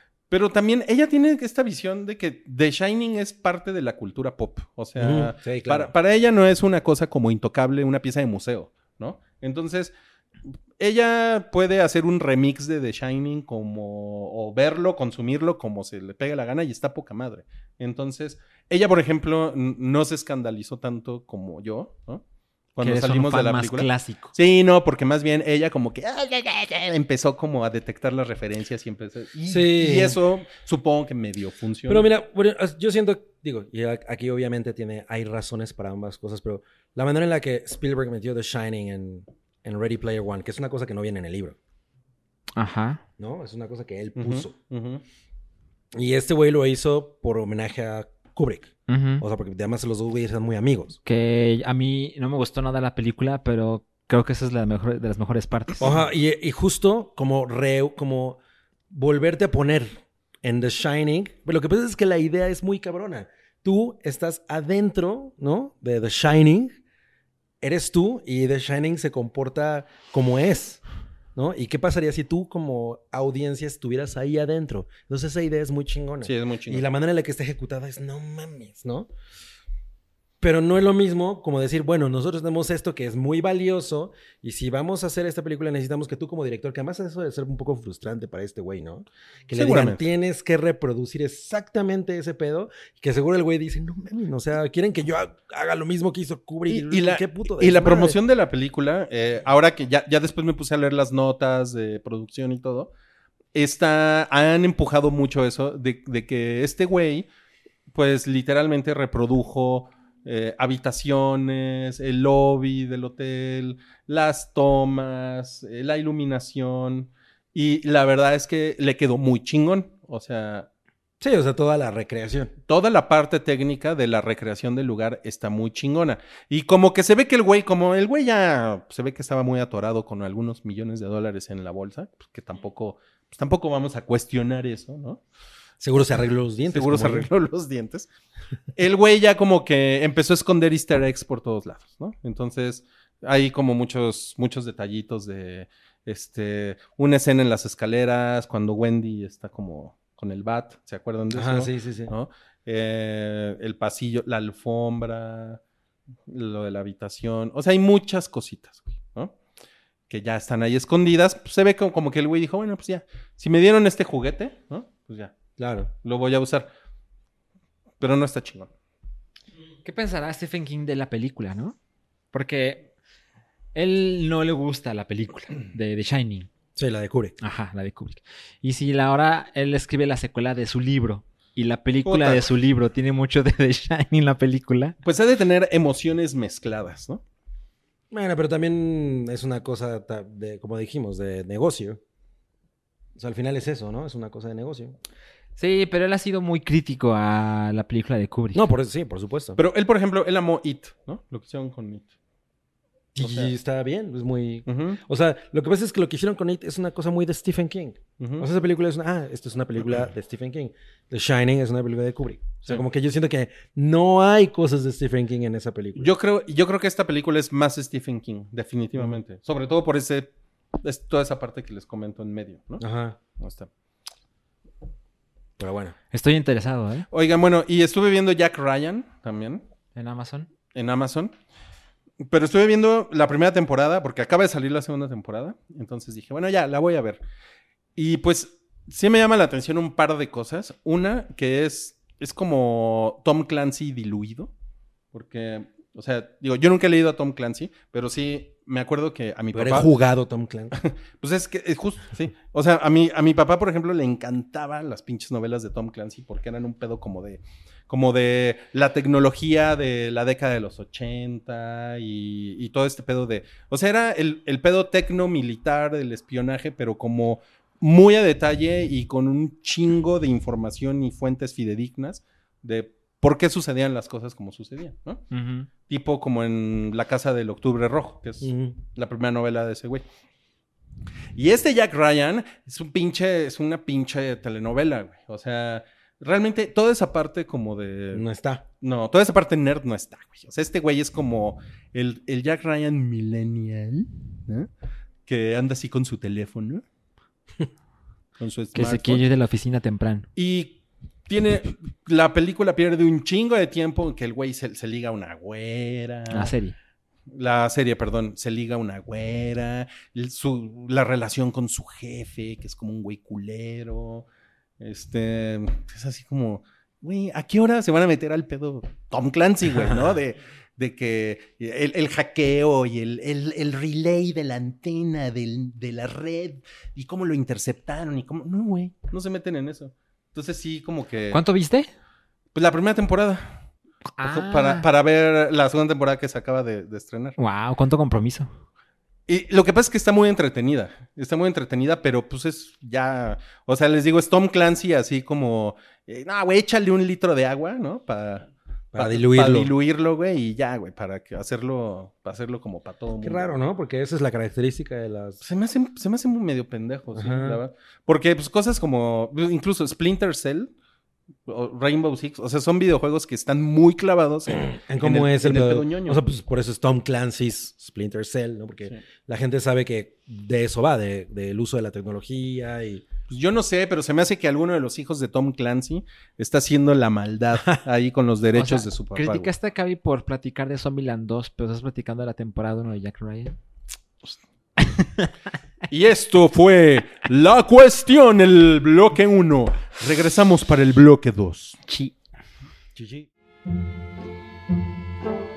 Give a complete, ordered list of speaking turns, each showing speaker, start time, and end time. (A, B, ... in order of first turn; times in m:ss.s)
0:00.3-0:09.9 A
0:05.0-0:05.9 B
0:10.8-0:22.2 A
0:22.8-0:32.1 A
0:22.8-0:24.3 C
0:29.5-0:30.2 B
0:31.9-0:41.6 B
0:42.6-0:43.0 C
0:43.2-0:44.5 B
0:44.2-0:45.0 A
0:45.9-0:51.0 B
0:48.9-0:49.2 C
0:51.0-0:55.9 C
0:55.8-0:58.4 B
0:58.9-1:06.8 B
1:07.6-1:10.8 B
1:11.4-1:19.1 B
1:16.2-1:16.8 A
1:20.4-1:38.2 B
1:29.5-1:30.0 A
1:36.7-1:42.9 A
1:43.5-1:47.3 A
1:47.9-2:00.7 A
2:01.2-2:02.5 B
2:02.7-2:15.2 A
2:15.8-2:17.3 B
2:16.7-2:18.1 A
2:18.8-2:35.6 A
2:31.3-2:32.1 B
2:36.3-2:39.3 A
2:40.1-2:45.3 A
2:45.6-2:45.9 B
2:46.0-2:46.7 A
2:48.0-2:48.7 A
2:49.8-2:51.8 C
2:52.3-2:52.9 C
2:53.8-2:56.5 C
2:56.8-2:57.4 B
2:57.4-3:05.0 C
3:02.0-3:02.5 A
3:05.0-3:07.2 A
3:08.1-3:12.0 B
3:13.2-3:15.0 B
3:15.6-3:18.6 C
3:18.5-3:19.6 B
3:19.6-3:22.1 A
3:23.1-3:36.1 B
3:23.2-3:23.5 A
3:24.7-3:25.0 A
3:28.2-3:28.5 A
3:36.0-3:40.3 A
3:40.8-3:42.8 A
3:42.8-3:43.2 B
3:43.4-3:43.7 A
3:45.6-3:46.0 B
3:46.1-3:47.1 C
3:47.1-3:49.6 A
3:50.0-3:50.5 C
3:50.8-3:51.3 A
3:52.2-3:57.2 A
3:58.0-4:04.5 A
4:05.1-4:09.9 A
4:09.5-4:10.8 B
4:10.7-4:35.2 A
4:35.3-4:35.7 C
4:35.9-4:40.0 A
4:38.4-4:38.8 B
4:41.4-4:48.2 A
4:48.1-4:48.6 B
4:48.8-4:54.7 A
4:55.3-4:56.8 A
4:58.4-4:59.2 A
4:58.8-5:00.3 C
5:00.4-5:06.5 A
5:06.3-5:06.8 C
5:07.3-5:14.3 A
5:14.8-5:31.4 A
5:31.3-5:31.9 C
5:32.6-5:33.6 A
5:34.2-5:34.9 C
5:34.2-5:37.4 A
5:37.4-5:38.5 C
5:39.3-5:53.6 A
5:48.9-5:49.7 B
5:53.2-5:55.4 B
5:55.4-6:00.7 A
5:57.1-5:57.6 B
6:01.5-6:06.2 A
6:04.5-6:13.1 B
6:13.3-6:19.5 A
6:18.5-6:23.6 C
6:24.8-6:25.3 C
6:25.9-6:31.8 A
6:31.9-6:32.1 C
6:33.0-6:33.3 B